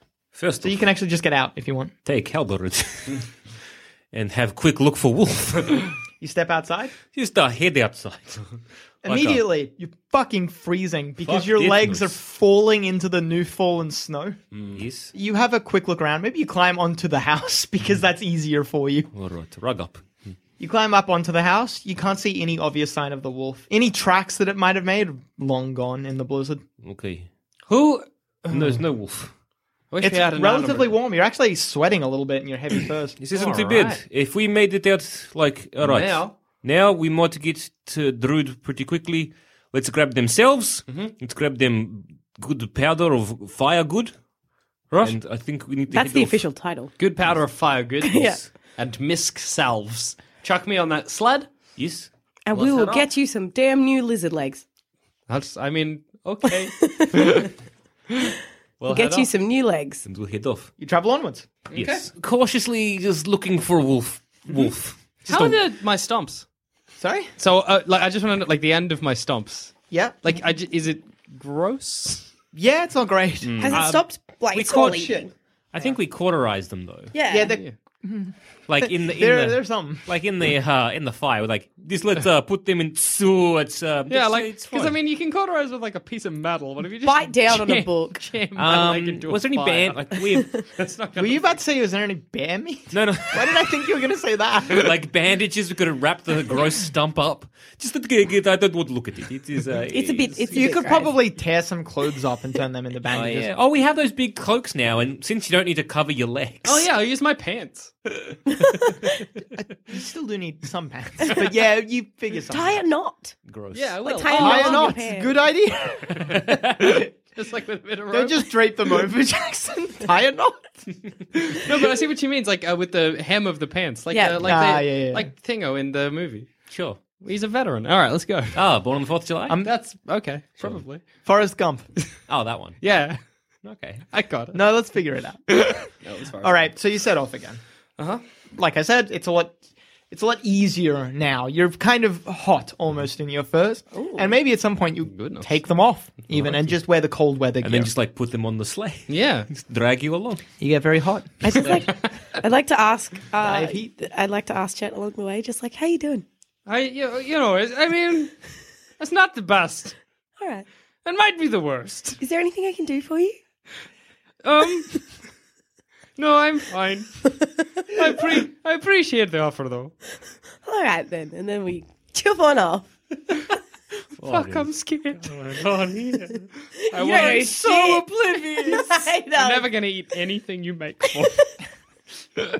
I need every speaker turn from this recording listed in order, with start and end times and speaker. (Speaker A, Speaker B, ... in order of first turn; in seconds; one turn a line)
Speaker A: 0.3-0.8
Speaker B: 0.6-1.9
Speaker A: 2.0-3.2
Speaker A: 4.1-5.9
Speaker B: 6.2-6.9
Speaker A: 7.1-8.5
Speaker A: 9.0-9.4
Speaker B: 9.0-14.4
Speaker A: 11.2-12.2
Speaker C: 14.5-14.8
Speaker A: 14.7-15.1
Speaker B: 15.1-19.1
Speaker A: 19.1-20.1
Speaker B: 20.6-26.6
Speaker A: 26.8-27.3
Speaker C: 27.7-28.8
Speaker A: 28.5-29.3
Speaker C: 29.9-30.9
Speaker B: 30.0-33.1
Speaker A: 33.2-44.1
Speaker C: 33.3-34.0
Speaker C: 35.8-36.4
Speaker A: 45.0-46.4
Speaker D: 45.9-46.9
Speaker C: 47.0-51.5
Speaker D: 48.0-48.4
Speaker A: 51.8-52.9
Speaker D: 52.5-54.6
Speaker C: 55.3-57.5
Speaker D: 56.5-57.5
Speaker C: 58.1-59.3
Speaker D: 58.9-60.0
Speaker A: 60.0-60.7
Speaker B: 60.8-61.5
Speaker C: 61.7-62.0
Speaker A: 61.7-65.6
Speaker C: 65.3-66.4
Speaker B: 67.0-67.3
Speaker C: 67.4-72.3
Speaker B: 69.9-70.3
Speaker B: 72.5-75.3
Speaker C: 73.5-73.8
Speaker D: 73.6-75.3
Speaker A: 74.5-74.9
Speaker A: 75.7-77.1
Speaker D: 77.1-77.5
Speaker B: 77.3-80.1
Speaker A: 78.7-85.0
Speaker C: 84.1-90.0
Speaker D: 87.0-88.3
Speaker A: 88.5-90.7
Speaker D: 90.3-90.6
Speaker C: 90.7-91.5
Speaker B: 91.2-94.9
Speaker A: 92.9-93.6
Speaker A: 94.7-100.8
Speaker D: 99.9-101.1
Speaker B: 100.5-103.5
Speaker A: 103.1-106.9
Speaker C: 106.6-107.9
Speaker D: 108.6-108.9
Speaker B: 109.9-112.8
Speaker D: 112.5-113.3
Speaker A: 113.5-114.0
Speaker C: 113.7-115.0
Speaker D: 114.0-115.3
Speaker B: 114.3-117.0
Speaker C: 116.5-118.5
Speaker B: 118.1-120.8
Speaker C: 121.5-128.6
Speaker D: 124.1-124.4
Speaker B: 124.4-125.3
Speaker A: 126.7-127.0
Speaker A: 128.5-129.6
Speaker C: 129.6-131.0
Speaker B: 131.2-131.9
Speaker A: 132.3-132.8
Speaker C: 132.8-133.2
Speaker A: 133.6-134.1
Speaker C: 134.1-134.6
Speaker B: 134.5-135.9
Speaker C: 136.0-136.7
Speaker B: 136.4-137.6
Speaker B: 138.5-139.6
Speaker B: 140.1-147.9
Speaker D: 143.9-144.3
Speaker C: 145.1-145.5
Speaker A: 147.6-150.4
Speaker C: 149.1-149.5
Speaker B: 150.6-151.6
Speaker D: 151.4-156.2
Speaker B: 153.4-153.9
Speaker C: 156.7-158.3
Speaker C: 159.0-159.9
Speaker D: 160.4-160.7
Speaker C: 161.0-162.2
Speaker D: 162.2-163.4
Speaker C: 164.4-165.1
Speaker C: 166.2-167.2
Speaker C: 167.9-169.9
Speaker D: 170.6-172.9
Speaker A: 174.2-178.8
Speaker C: 174.2-175.3
Speaker D: 176.9-180.0
Speaker C: 176.9-178.0
Speaker C: 178.7-181.4
Speaker D: 181.1-181.4